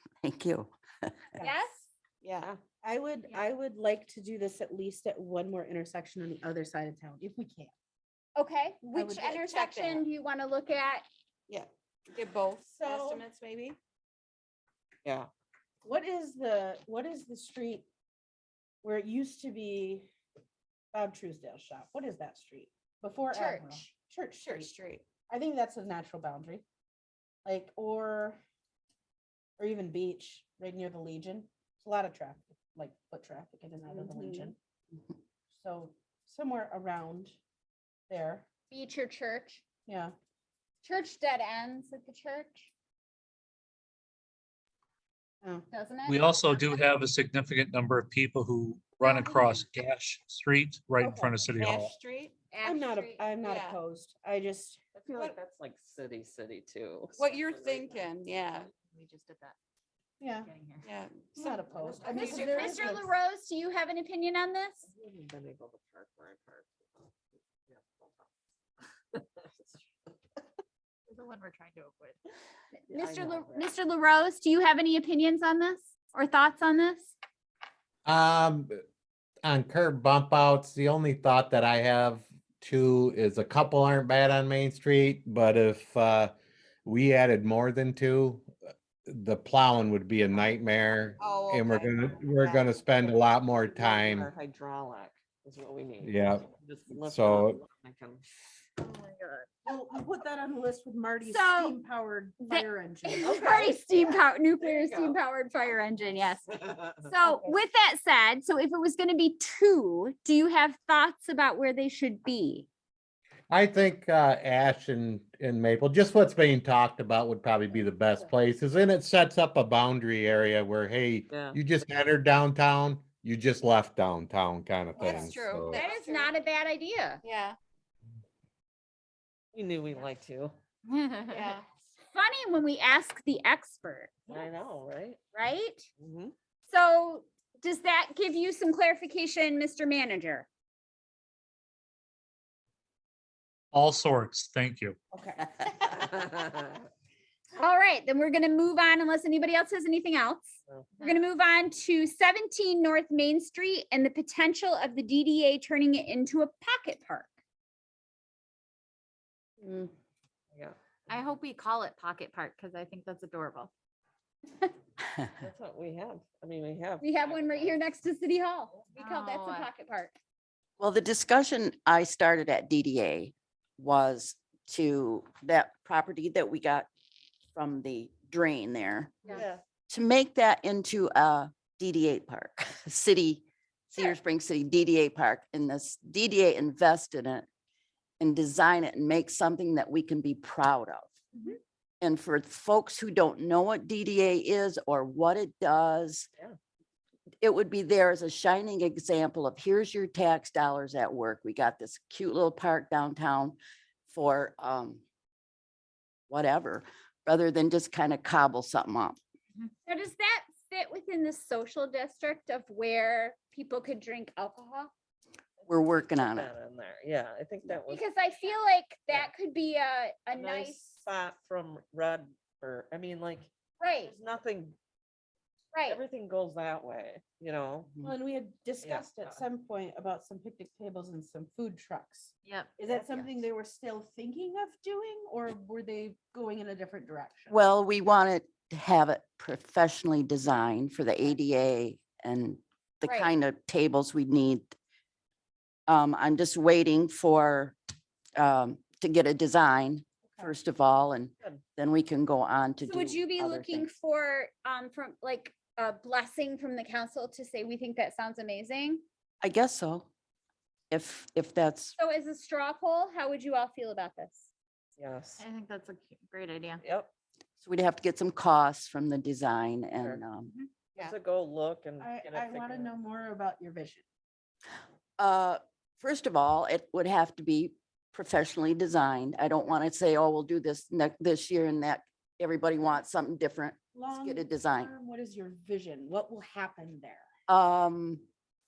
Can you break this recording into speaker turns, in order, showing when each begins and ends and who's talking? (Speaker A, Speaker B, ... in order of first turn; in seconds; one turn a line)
Speaker A: 0.2-1.4
Speaker B: 1.4-1.8
Speaker C: 2.2-2.5
Speaker D: 2.8-7.7
Speaker B: 8.3-11.0
Speaker D: 8.9-9.4
Speaker C: 9.4-10.1
Speaker C: 11.5-13.8
Speaker D: 12.7-13.2
Speaker D: 15.8-17.9
Speaker D: 18.8-20.1
Speaker D: 20.9-24.7
Speaker B: 23.3-23.9
Speaker C: 24.4-25.0
Speaker D: 25.3-26.6
Speaker D: 27.4-28.4
Speaker D: 29.6-34.6
Speaker D: 35.5-37.4
Speaker D: 38.1-38.5
Speaker B: 38.7-39.6
Speaker D: 39.9-40.1
Speaker B: 40.8-42.7
Speaker B: 45.7-46.7
Speaker E: 46.1-52.0
Speaker B: 49.0-49.6
Speaker D: 51.0-51.5
Speaker C: 51.5-52.4
Speaker B: 52.5-53.2
Speaker D: 52.6-54.8
Speaker C: 53.4-53.8
Speaker F: 54.9-58.1
Speaker C: 57.1-58.7
Speaker G: 58.7-59.5
Speaker D: 60.2-60.5
Speaker G: 60.4-60.9
Speaker C: 60.8-63.0
Speaker D: 61.3-63.1
Speaker B: 62.1-64.9
Speaker F: 64.8-66.7
Speaker F: 69.1-69.8
Speaker G: 71.1-72.1
Speaker B: 72.8-77.1
Speaker F: 72.9-73.7
Speaker H: 78.0-78.7
Speaker H: 79.4-86.3
Speaker H: 86.8-88.5
Speaker H: 89.1-94.3
Speaker C: 91.2-92.7
Speaker F: 92.9-98.2
Speaker H: 96.0-96.5
Speaker H: 97.0-97.6
Speaker D: 99.7-103.7
Speaker B: 101.2-101.8
Speaker B: 102.4-106.5
Speaker F: 103.2-105.2
Speaker F: 106.6-107.5
Speaker B: 107.0-112.7
Speaker H: 113.5-125.8
Speaker F: 121.3-121.6
Speaker C: 125.0-126.3
Speaker B: 125.7-127.2
Speaker C: 127.2-127.6
Speaker F: 129.5-130.5
Speaker C: 131.2-131.6
Speaker B: 132.1-134.4
Speaker F: 134.3-135.2
Speaker B: 135.3-135.8
Speaker F: 136.0-136.3
Speaker B: 136.7-140.5
Speaker E: 143.7-144.9
Speaker D: 145.1-145.6
Speaker F: 146.0-146.6
Speaker B: 147.6-157.3
Speaker G: 151.0-151.3
Speaker G: 161.1-163.7
Speaker F: 165.4-167.9
Speaker B: 167.0-170.1
Speaker G: 168.9-169.7
Speaker A: 170.8-176.9
Speaker A: 177.5-187.4
Speaker F: 179.3-179.6
Speaker A: 188.2-191.1
Speaker A: 192.0-196.3
Speaker A: 197.4-205.0
Speaker A: 206.3-209.2
Speaker B: 209.8-214.9
Speaker F: 215.6-218.1
Speaker A: 215.7-216.5
Speaker B: 217.9-220.8
Speaker F: 220.3-223.5
Speaker B: 223.8-224.1
Speaker F: 224.0-224.8
Speaker B: 225.7-226.0
Speaker F: 225.9-227.9
Speaker D: 228.0-237.6
Speaker F: 228.8-229.4
Speaker G: 232.4-232.8
Speaker A: 237.5-244.7
Speaker B: 243.1-243.3
Speaker A: 245.9-247.8
Speaker A: 248.4-253.9
Speaker B: 252.8-259.0
Speaker A: 259.4-260.1
Speaker A: 260.9-261.9
Speaker B: 262.0-264.5
Speaker F: 265.0-265.4
Speaker G: 265.4-266.8
Speaker F: 266.8-267.1
Speaker A: 267.6-270.5
Speaker F: 270.9-272.9
Speaker D: 272.0-274.0
Speaker A: 275.2-284.9
Speaker D: 283.9-287.2
Speaker A: 287.5-288.2